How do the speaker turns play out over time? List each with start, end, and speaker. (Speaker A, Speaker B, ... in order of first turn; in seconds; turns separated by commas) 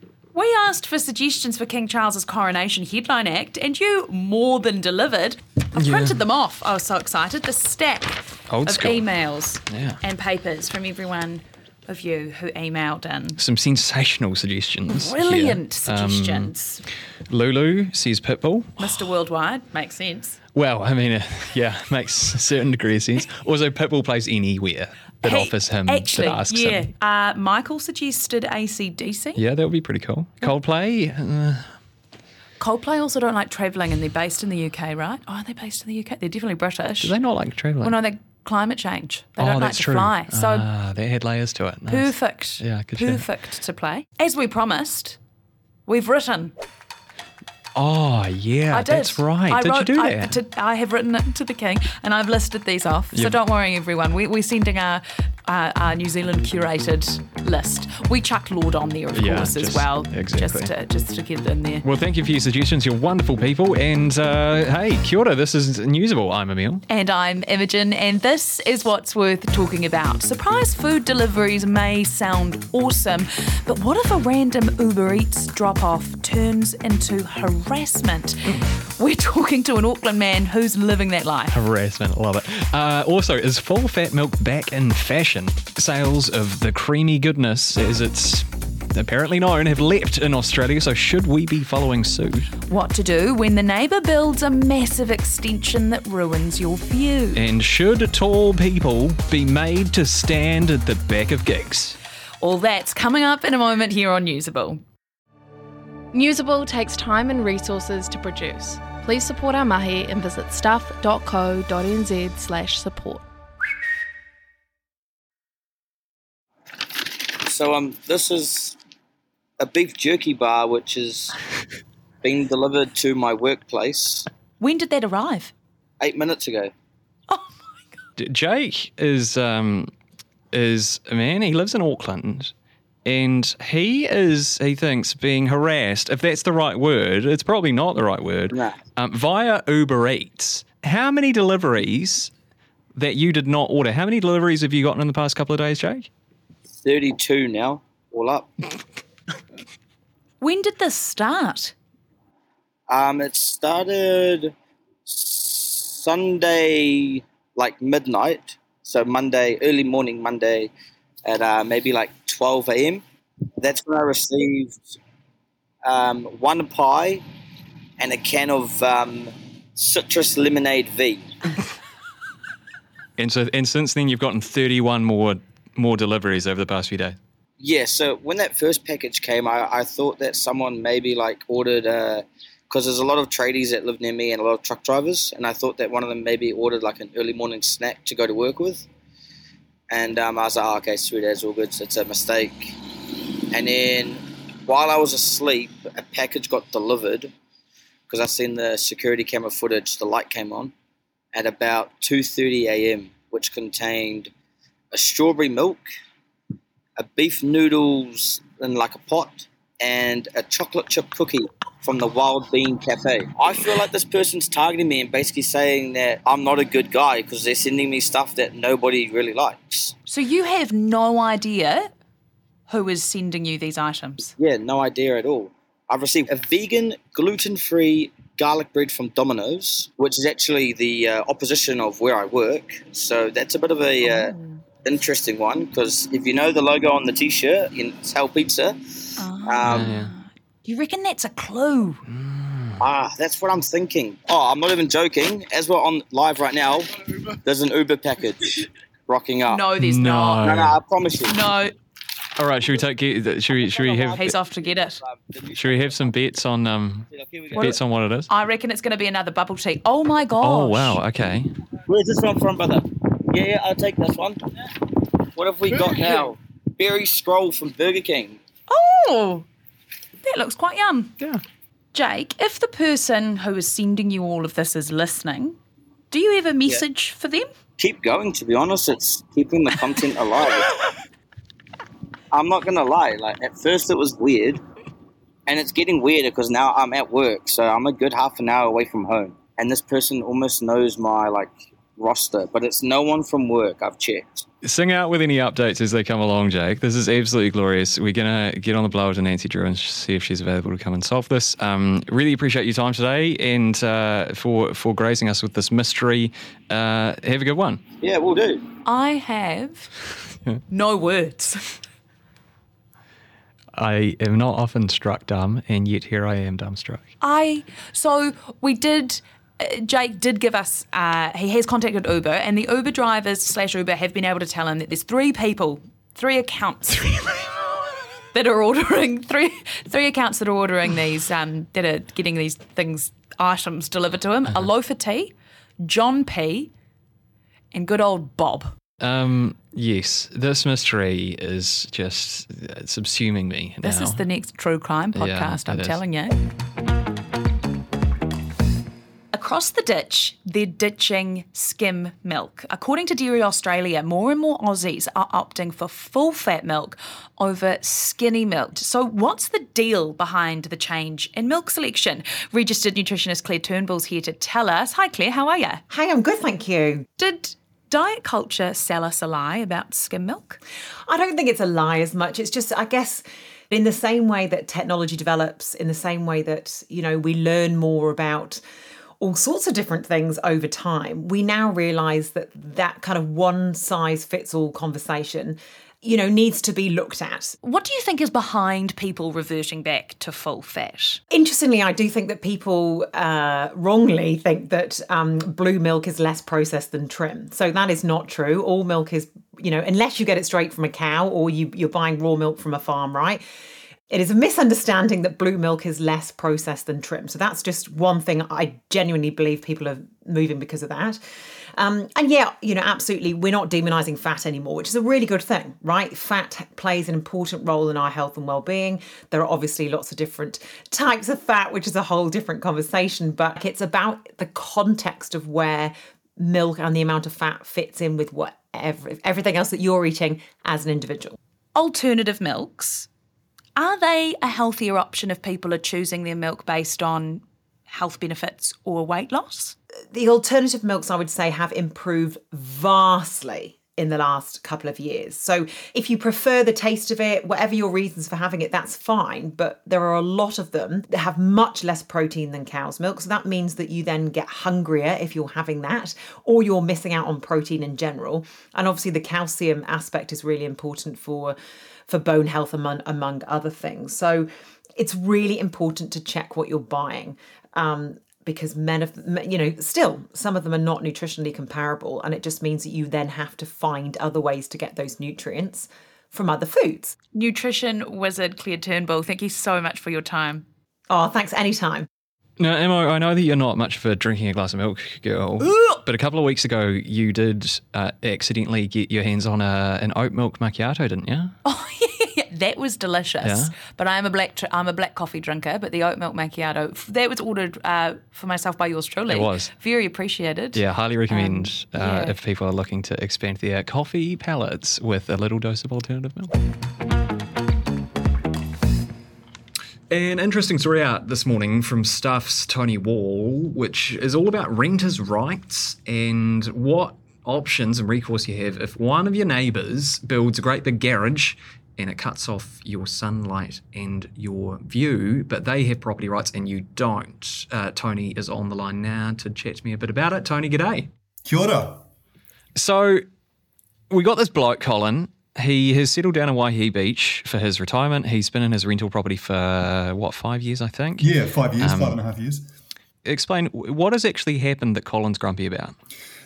Speaker A: 0.3-13.4, Speaker B: 5.8-6.2, Speaker B: 8.5-9.1, Speaker B: 9.7-10.0, Speaker B: 13.4-16.5, Speaker A: 14.9-16.8, Speaker B: 17.3-18.9, Speaker A: 18.8-20.4, Speaker B: 20.6-26.9, Speaker A: 25.2-29.4, Speaker B: 29.4-31.7, Speaker A: 32.6-37.1, Speaker B: 37.0-38.0, Speaker A: 37.8-40.7, Speaker B: 39.4-43.2, Speaker A: 41.9-45.2, Speaker A: 45.9-46.5, Speaker B: 47.8-50.4, Speaker A: 48.7-61.9, Speaker B: 53.1-53.4, Speaker B: 59.1-60.7, Speaker B: 61.8-66.8, Speaker A: 66.9-81.6, Speaker B: 81.5-92.5, Speaker A: 92.7-97.4, Speaker B: 97.3-102.0, Speaker A: 102.4-104.8, Speaker C: 106.1-113.2, Speaker D: 117.0-118.8, Speaker D: 119.6-121.3, Speaker D: 122.2-124.3, Speaker A: 124.6-125.5, Speaker D: 126.0-126.7, Speaker B: 128.2-129.9, Speaker B: 130.5-132.5, Speaker B: 133.1-142.3, Speaker D: 138.5-138.8, Speaker B: 142.9-146.1, Speaker D: 146.8-148.8, Speaker A: 150.4-151.7, Speaker D: 152.9-154.5, Speaker D: 155.1-160.7, Speaker D: 161.2-163.0, Speaker D: 163.6-165.0, Speaker D: 165.8-167.2, Speaker D: 168.0-171.3, Speaker B: 173.2-177.2, Speaker D: 177.6-188.9, Speaker D: 189.9-197.3, Speaker D: 198.1-200.7, Speaker D: 201.3-204.3, Speaker D: 204.9-205.9, Speaker D: 207.0-220.0, Speaker A: 220.1-221.9, Speaker A: 222.7-224.3, Speaker D: 224.4-239.9, Speaker A: 234.0-234.6, Speaker A: 239.2-242.0, Speaker B: 239.7-240.1, Speaker B: 242.2-242.7, Speaker D: 242.8-249.7, Speaker A: 249.5-250.5, Speaker B: 249.8-250.8, Speaker D: 250.4-251.4, Speaker A: 251.2-251.7, Speaker B: 252.4-254.2, Speaker D: 253.5-256.1, Speaker A: 254.2-255.0, Speaker B: 255.6-258.3, Speaker D: 257.1-257.8, Speaker A: 258.3-261.0, Speaker B: 260.4-261.5, Speaker D: 261.9-268.4, Speaker A: 268.7-269.5, Speaker A: 270.2-271.2, Speaker A: 271.9-275.6, Speaker A: 276.1-277.5, Speaker D: 277.8-280.9, Speaker D: 282.3-284.6, Speaker D: 285.5-294.5, Speaker B: 294.6-307.8, Speaker D: 308.0-308.7, Speaker A: 308.9-309.9, Speaker A: 310.7-311.8, Speaker B: 313.8-317.1, Speaker A: 317.2-327.6, Speaker A: 328.3-336.7, Speaker A: 337.7-338.7, Speaker B: 339.0-344.2, Speaker A: 343.8-346.3, Speaker B: 345.1-346.0, Speaker A: 349.3-365.8, Speaker E: 365.9-367.1, Speaker A: 367.2-370.6, Speaker E: 371.1-378.6, Speaker E: 379.2-387.6, Speaker A: 387.6-391.2, Speaker E: 391.3-403.4, Speaker E: 404.1-411.2, Speaker E: 411.8-431.4, Speaker A: 431.8-433.1, Speaker A: 433.8-439.8, Speaker E: 440.1-461.6, Speaker E: 462.1-477.2, Speaker A: 477.3-480.6, Speaker E: 481.1-482.1, Speaker B: 482.6-491.5, Speaker A: 485.6-486.0, Speaker A: 491.6-502.4, Speaker B: 493.4-493.8, Speaker B: 499.3-499.7, Speaker B: 500.7-506.5, Speaker B: 510.1-531.1, Speaker F: 531.5-532.0, Speaker B: 532.8-533.2, Speaker B: 534.1-542.2, Speaker F: 541.2-542.7, Speaker B: 543.2-546.0